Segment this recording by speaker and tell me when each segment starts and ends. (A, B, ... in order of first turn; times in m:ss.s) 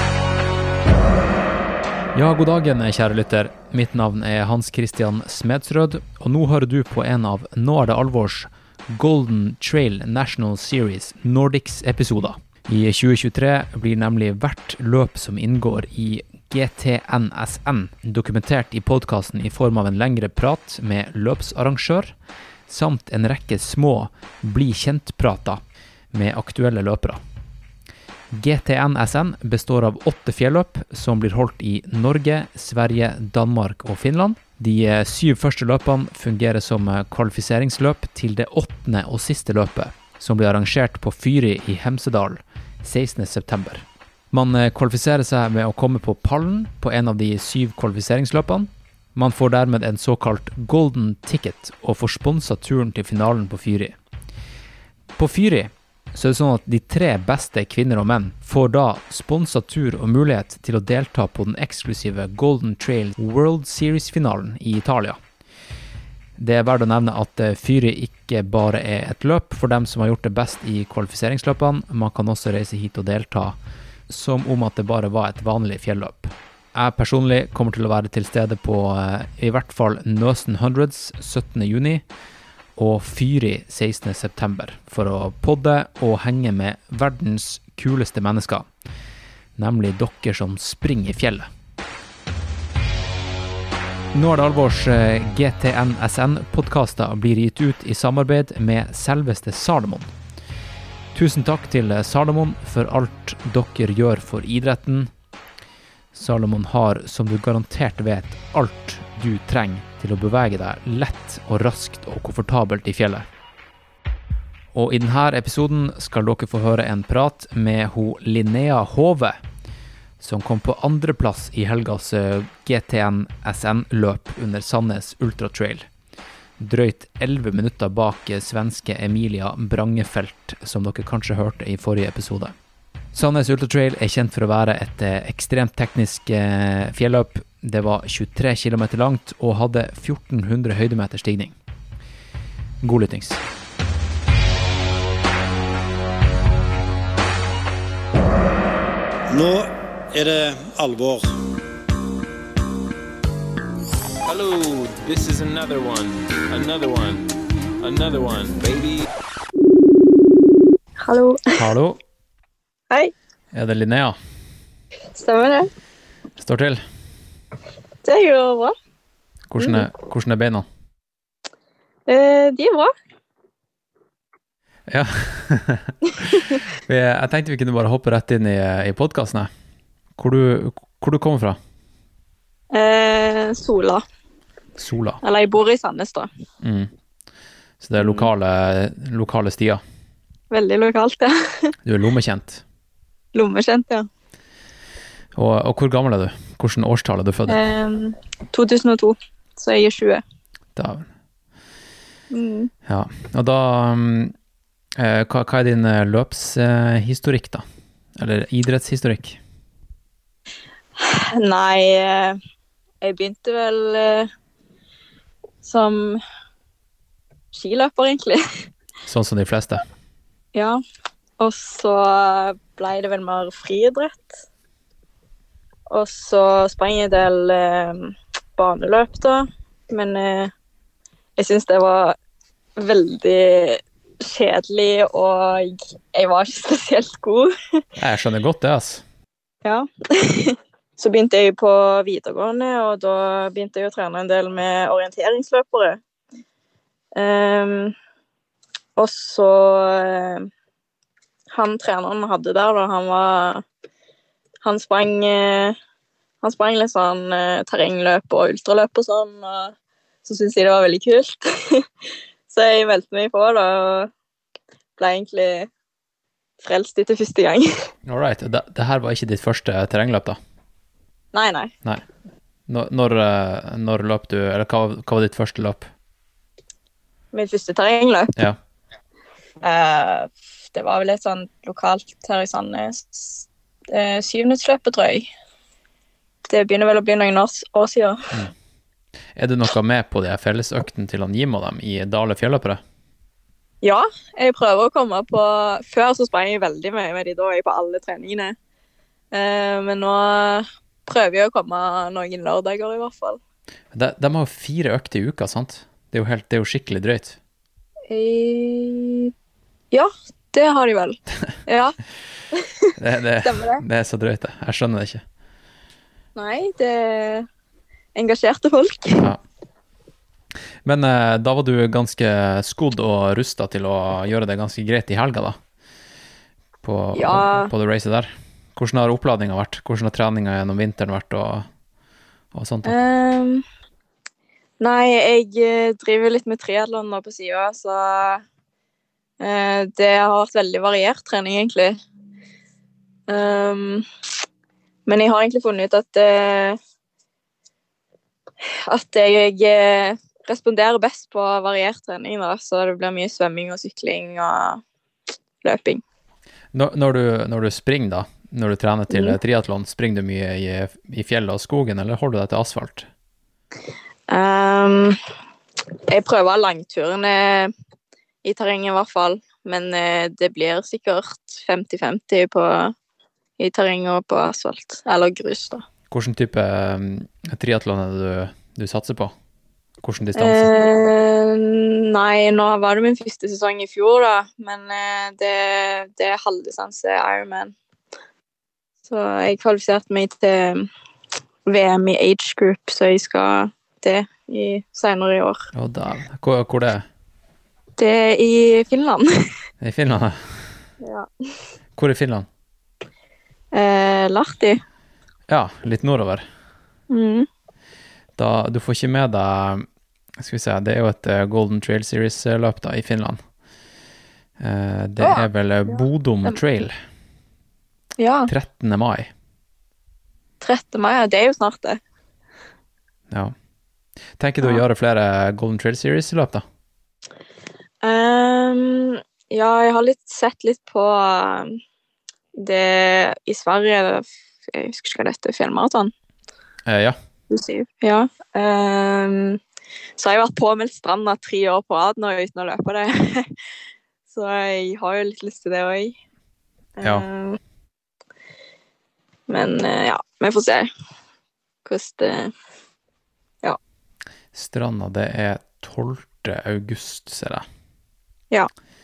0:02.1-0:22.1 A
0:22.7-0:25.6 A
0:26.1-0:27.2 A
0:28.3-0:53.9 A
0:55.2-1:05.2 A
1:06.4-1:13.6 A
1:14.1-1:22.0 A
1:22.8-1:28.6 A
1:29.6-1:31.5 A
1:34.1-1:40.1 A
1:41.1-1:45.1 A
1:46.1-1:53.2 A
1:54.7-1:59.4 A
2:00.2-2:05.8 A
2:06.6-2:12.5 A
2:13.1-2:21.5 A
2:22.8-2:23.4 A
2:29.3-2:31.3 B
2:34.3-2:37.3 C
2:37.8-2:39.0 C
2:41.0-2:41.6 D
2:41.6-2:42.0 A
2:43.5-2:44.2 A
2:45.1-2:45.7 D
2:46.4-2:46.8 A
2:48.0-2:48.7 D
2:49.5-2:50.6 A
2:52.1-2:52.9 D
2:54.9-2:59.5 A
2:56.0-2:56.6 D
3:00.2-3:01.6 A
3:02.7-3:04.0 D
3:04.8-3:05.2 A
3:05.2-3:06.3 D
3:06.6-3:06.9 A
3:07.8-3:09.8 A
3:08.0-3:08.3 D
3:10.5-3:11.7 D
3:11.8-3:12.6 A
3:13.3-3:14.0 D
3:15.4-3:17.6 A
3:17.5-3:20.2 D
3:20.8-3:21.0 A
3:22.3-3:22.7 D
3:22.9-3:24.3 A
3:25.0-3:27.6 A
3:28.2-3:29.4 A
3:31.0-3:32.4 D
3:33.0-3:34.3 D
3:35.6-3:36.2 D
3:37.5-3:38.4 D
3:39.0-3:39.8 A
3:40.5-3:40.8 D
3:41.4-3:44.4 D
3:45.9-3:50.5 D
3:51.4-3:52.2 D
3:52.8-3:57.8 D
3:58.0-3:59.0 A
3:59.6-4:06.0 D
4:07.2-4:07.9 D
4:09.0-4:10.5 D
4:11.5-4:13.6 D
4:14.6-4:15.8 D
4:16.4-4:19.7 D
4:20.2-4:21.8 D
4:22.5-4:24.1 D
4:25.0-4:25.7 D
4:26.6-4:27.7 D
4:28.1-4:30.4 A
4:31.3-4:31.7 D
4:32.7-4:35.9 A
4:37.3-4:38.3 D
4:39.6-4:45.3 D
4:46.5-4:48.3 D
4:49.4-4:52.8 A
4:53.8-4:58.5 D
4:59.3-5:03.4 D
5:03.9-5:07.4 A
5:08.1-5:09.3 D
5:09.9-5:12.0 D
5:12.5-5:13.8 D
5:13.0-5:15.2 A
5:16.4-5:17.5 D
5:18.1-5:19.2 D
5:20.8-5:25.5 A
5:26.8-5:31.6 A
5:27.1-5:27.7 D
5:32.5-5:33.0 A
5:32.8-5:33.6 D
5:34.8-5:38.4 D
5:39.4-5:42.0 D
5:43.3-5:44.0 D
5:45.0-5:46.8 D
5:48.9-5:54.8 D
5:55.6-5:56.0 D
5:56.7-6:03.1 A
5:59.1-5:59.4 D
6:04.3-6:05.2 D
6:06.1-6:07.7 D
6:08.4-6:12.9 D
6:13.6-6:15.8 D
6:16.1-6:19.3 A
6:20.0-6:20.7 A
6:20.3-6:27.7 D
6:29.0-6:30.9 D
6:31.7-6:35.6 D
6:35.7-6:37.0 A
6:38.0-6:39.2 D
6:39.8-6:40.4 A
6:41.0-6:41.3 D
6:42.0-6:42.4 A
6:43.7-6:44.8 D
6:45.5-6:46.4 A
6:47.1-6:47.5 D
6:48.4-6:49.8 A
6:50.4-6:53.4 A
6:54.6-6:56.9 A
6:55.2-6:56.6 D
6:58.2-6:58.5 D
6:58.5-6:59.3 A
7:00.6-7:02.0 D
7:04.4-7:06.6 A
7:08.0-7:11.8 D
7:12.6-7:16.1 D
7:16.9-7:17.2 A
7:17.5-7:19.6 D
7:20.2-7:23.5 D
7:24.3-7:26.2 D
7:27.0-7:27.6 D
7:29.5-7:30.9 D
7:31.8-7:32.5 D
7:34.5-7:37.6 A